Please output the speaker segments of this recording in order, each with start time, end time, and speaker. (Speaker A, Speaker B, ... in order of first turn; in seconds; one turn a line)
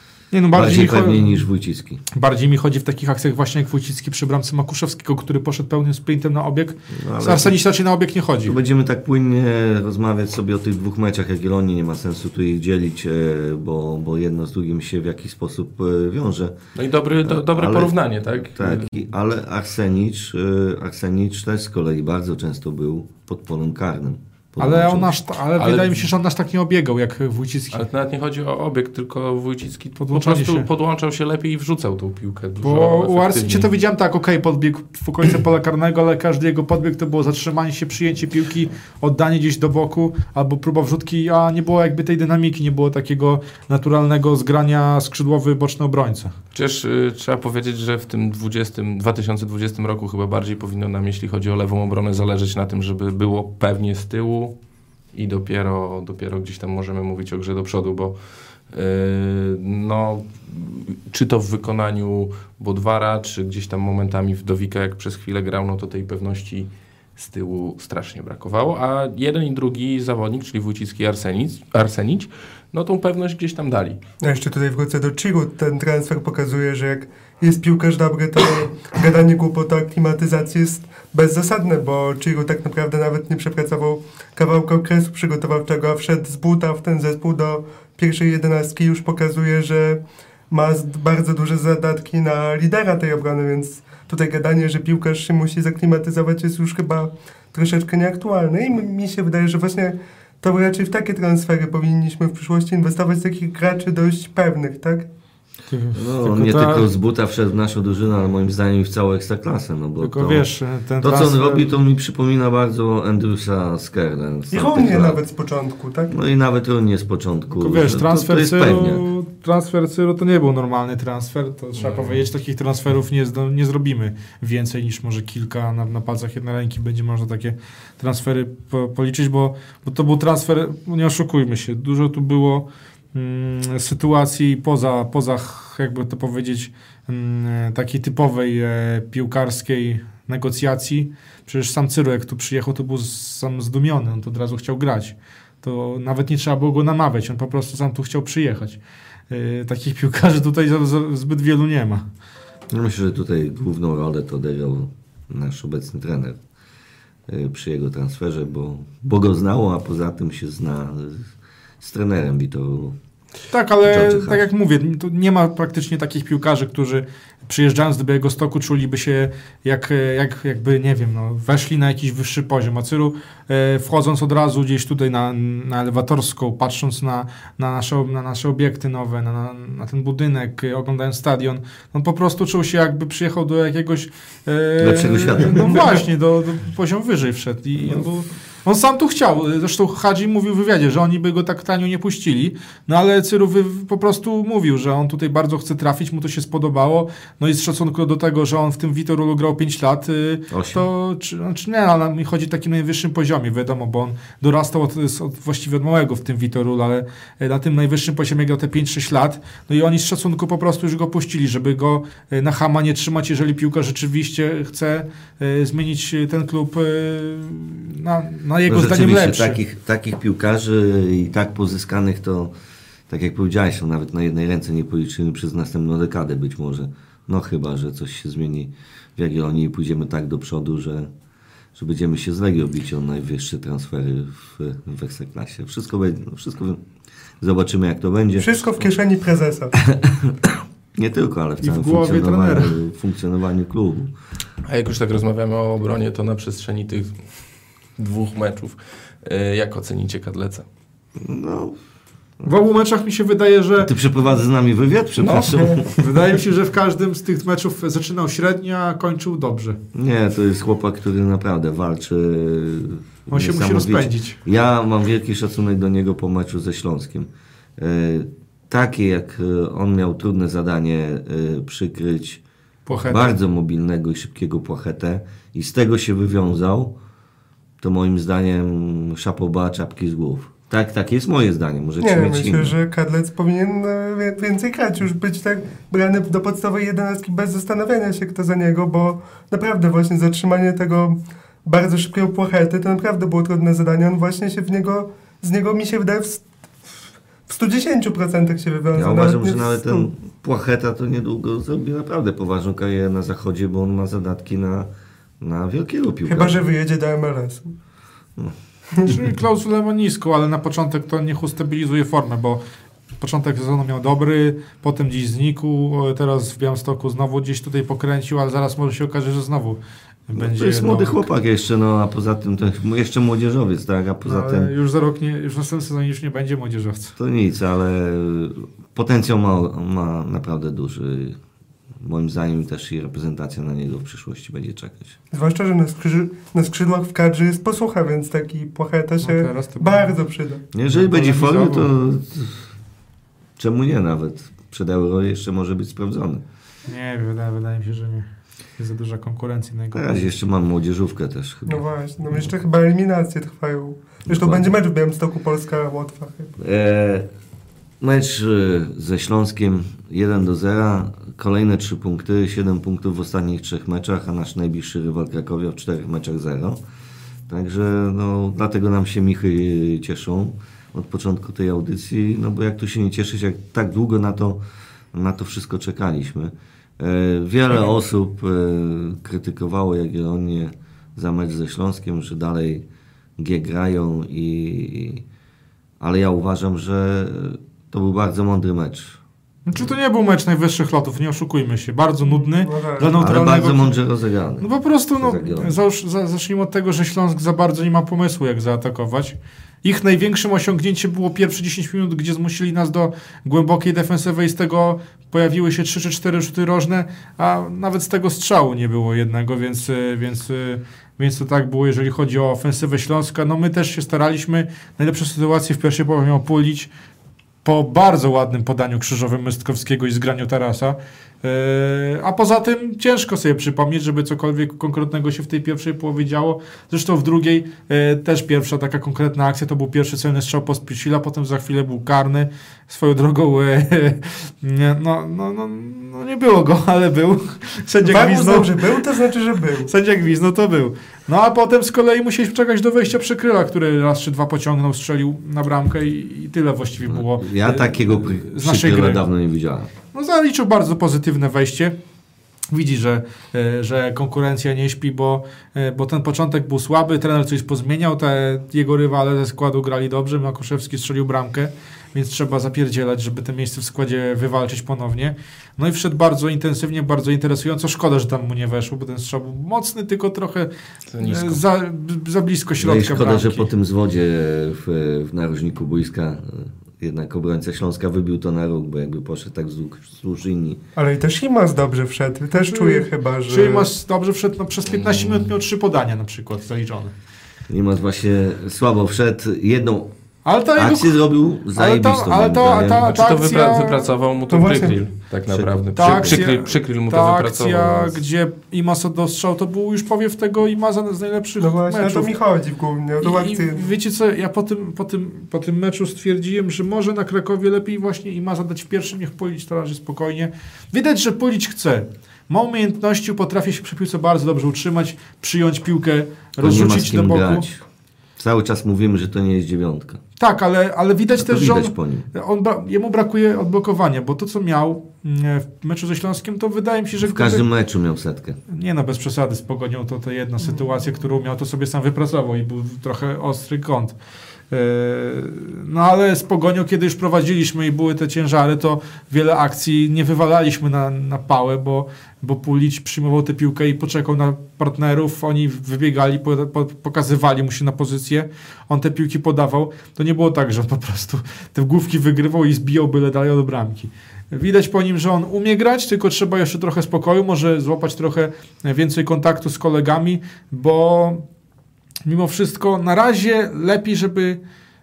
Speaker A: 0.3-1.5
Speaker B: 0.5-2.0
Speaker A: 2.1-8.6
Speaker B: 6.9-7.6
Speaker B: 8.5-16.6
Speaker C: 16.8-19.0
Speaker B: 17.2-17.9
Speaker B: 18.5-25.1
Speaker A: 24.6-27.8
Speaker C: 25.6-26.0
Speaker C: 27.7-33.7
Speaker A: 30.0-30.6
Speaker A: 32.6-46.4
Speaker C: 46.5-54.6
Speaker C: 55.1-58.2
Speaker C: 58.7-74.0
Speaker D: 74.2-90.0
Speaker D: 90.5-105.1
Speaker A: 105.7-106.9
Speaker B: 105.9-110.5
Speaker A: 110.0-111.6
Speaker B: 111.0-115.2
Speaker D: 114.5-116.1
Speaker B: 116.1-119.0
Speaker A: 117.6-148.8
Speaker C: 121.8-122.2
Speaker A: 149.3-152.0
Speaker B: 152.7-156.4
Speaker B: 157.3-163.0
Speaker A: 163.5-219.6
Speaker B: 163.8-164.5
Speaker B: 184.8-186.0
Speaker B: 200.5-200.8
Speaker B: 218.7-222.5
Speaker B: 223.1-231.1
Speaker B: 231.8-236.8
Speaker B: 237.4-238.8
Speaker D: 238.4-239.8
Speaker B: 239.8-244.1
Speaker A: 241.6-242.8
Speaker C: 244.6-250.7
Speaker B: 251.2-251.8
Speaker A: 252.4-253.9
Speaker B: 253.8-256.0
Speaker A: 255.2-259.8
Speaker B: 259.9-272.4
Speaker A: 263.3-264.4
Speaker A: 272.9-273.4
Speaker B: 273.1-276.9
Speaker B: 277.8-282.8
Speaker D: 282.0-296.4
Speaker D: 297.5-300.1
Speaker B: 298.9-304.9
Speaker B: 305.4-306.6
Speaker D: 306.3-307.7
Speaker A: 309.1-312.6
Speaker A: 313.2-321.2
Speaker B: 320.4-324.7
Speaker A: 324.2-327.1
Speaker B: 327.2-331.4
Speaker B: 332.0-335.1
Speaker D: 335.3-340.6
Speaker A: 339.2-340.1
Speaker B: 340.7-342.7
Speaker A: 340.9-341.9
Speaker B: 343.6-346.4
Speaker A: 346.9-348.3
Speaker A: 348.8-350.3
Speaker B: 349.9-351.9
Speaker D: 351.7-356.5
Speaker B: 354.3-354.7
Speaker B: 356.6-357.3
Speaker B: 358.0-366.8
Speaker B: 367.5-374.6
Speaker B: 375.1-382.9
Speaker B: 383.4-385.2
Speaker B: 386.0-389.2
Speaker A: 389.6-393.9
Speaker D: 392.3-393.6
Speaker B: 393.1-395.8
Speaker A: 394.6-416.9
Speaker A: 417.6-438.8
Speaker D: 438.0-439.9
Speaker A: 439.9-449.2
Speaker B: 447.0-449.9
Speaker A: 450.1-452.0
Speaker A: 452.7-470.7
Speaker C: 471.1-471.6
Speaker A: 471.2-473.7
Speaker B: 472.8-480.8
Speaker D: 480.9-483.9
Speaker A: 482.6-487.1
Speaker C: 484.9-485.5
Speaker B: 487.7-490.1
Speaker A: 490.4-494.1
Speaker B: 490.8-493.1
Speaker C: 493.0-498.2
Speaker D: 494.5-495.0
Speaker B: 495.5-496.4
Speaker A: 495.9-502.3
Speaker D: 501.6-503.9
Speaker A: 503.2-517.6
Speaker B: 516.6-517.8
Speaker B: 518.4-520.2
Speaker A: 520.4-527.6
Speaker B: 521.4-522.3
Speaker B: 527.2-528.6
Speaker A: 528.7-534.1
Speaker A: 534.7-561.4
Speaker A: 562.3-564.6